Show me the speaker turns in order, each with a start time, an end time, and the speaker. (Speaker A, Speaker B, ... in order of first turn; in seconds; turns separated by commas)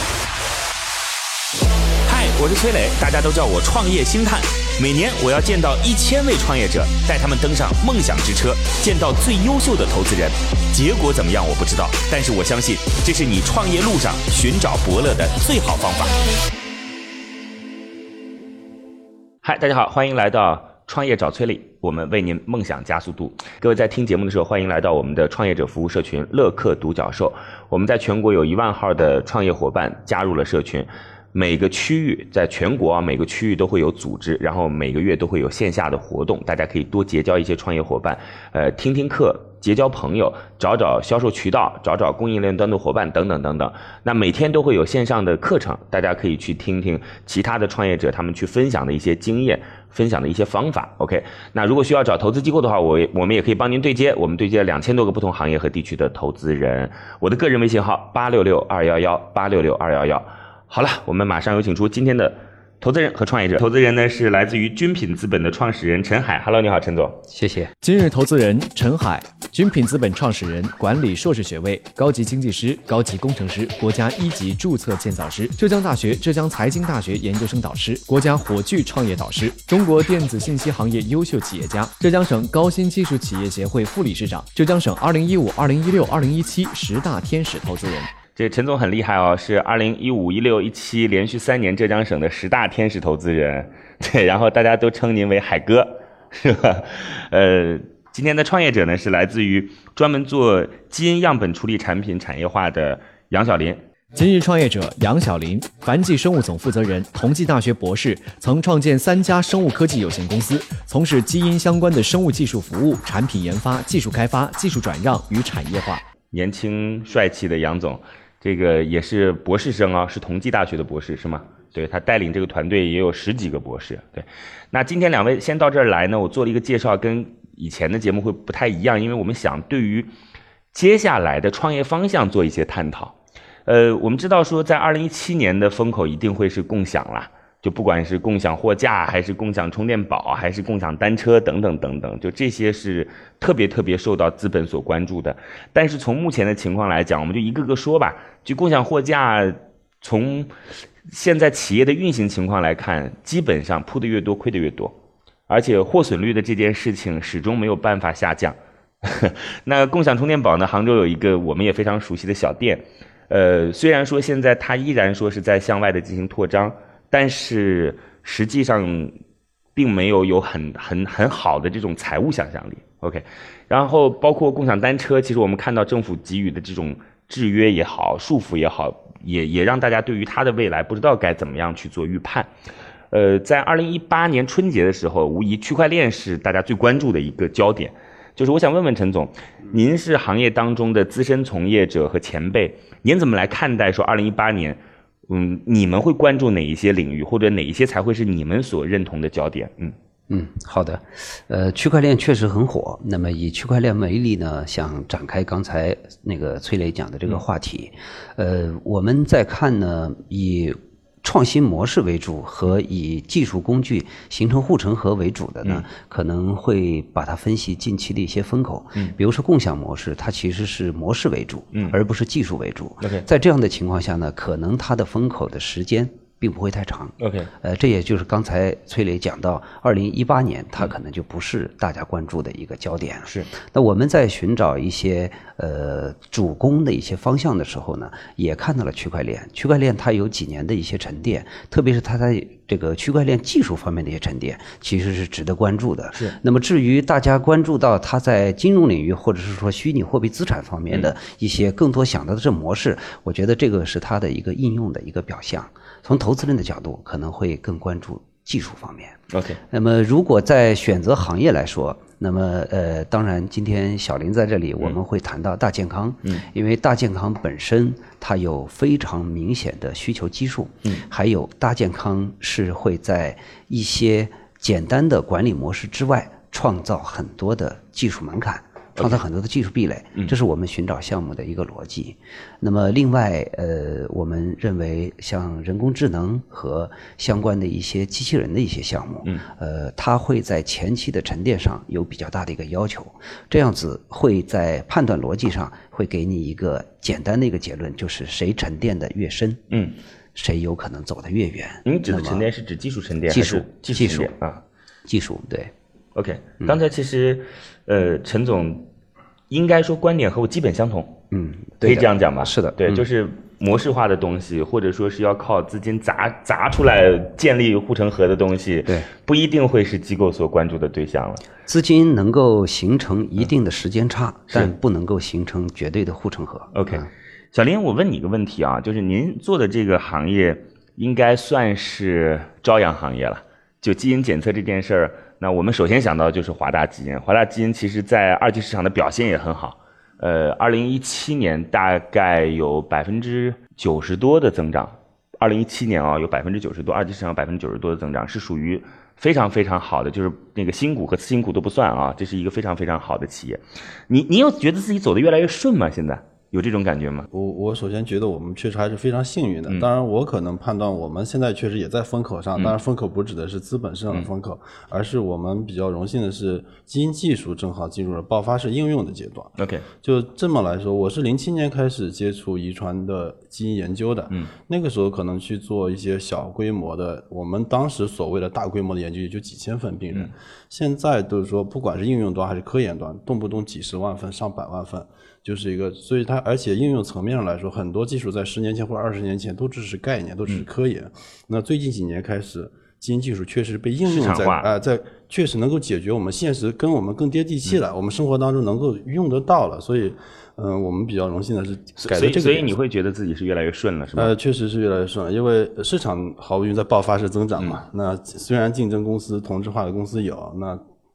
Speaker A: 2.1-16.2, Speaker A: 19.4-67.2, Speaker B: 67.3-67.7, Speaker C: 67.8-88.1, Speaker A: 88.4-103.8, Speaker C: 104.1-116.0, Speaker A: 116.3-130.1, Speaker A: 130.7-150.5, Speaker A: 151.1-154.9, Speaker A: 155.5-169.2, Speaker A: 169.8-182.5, Speaker A: 183.1-199.9, Speaker B: 200.3-259.2, Speaker A: 223.0-223.3, Speaker A: 227.2-227.5, Speaker A: 259.3-259.6, Speaker B: 259.7-299.6, Speaker A: 299.7-300.0, Speaker B: 300.4-302.5, Speaker A: 301.9-304.6, Speaker B: 303.3-304.3, Speaker B: 305.1-305.7, Speaker A: 306.2-308.9, Speaker A: 309.5-311.2, Speaker B: 311.3-313.0, Speaker A: 311.8-321.4, Speaker B: 321.7-327.1, Speaker A: 326.7-357.3, Speaker D: 357.3-402.7, Speaker A: 369.6-369.9, Speaker A: 394.1-394.7, Speaker A: 402.0-404.3, Speaker D: 404.2-410.8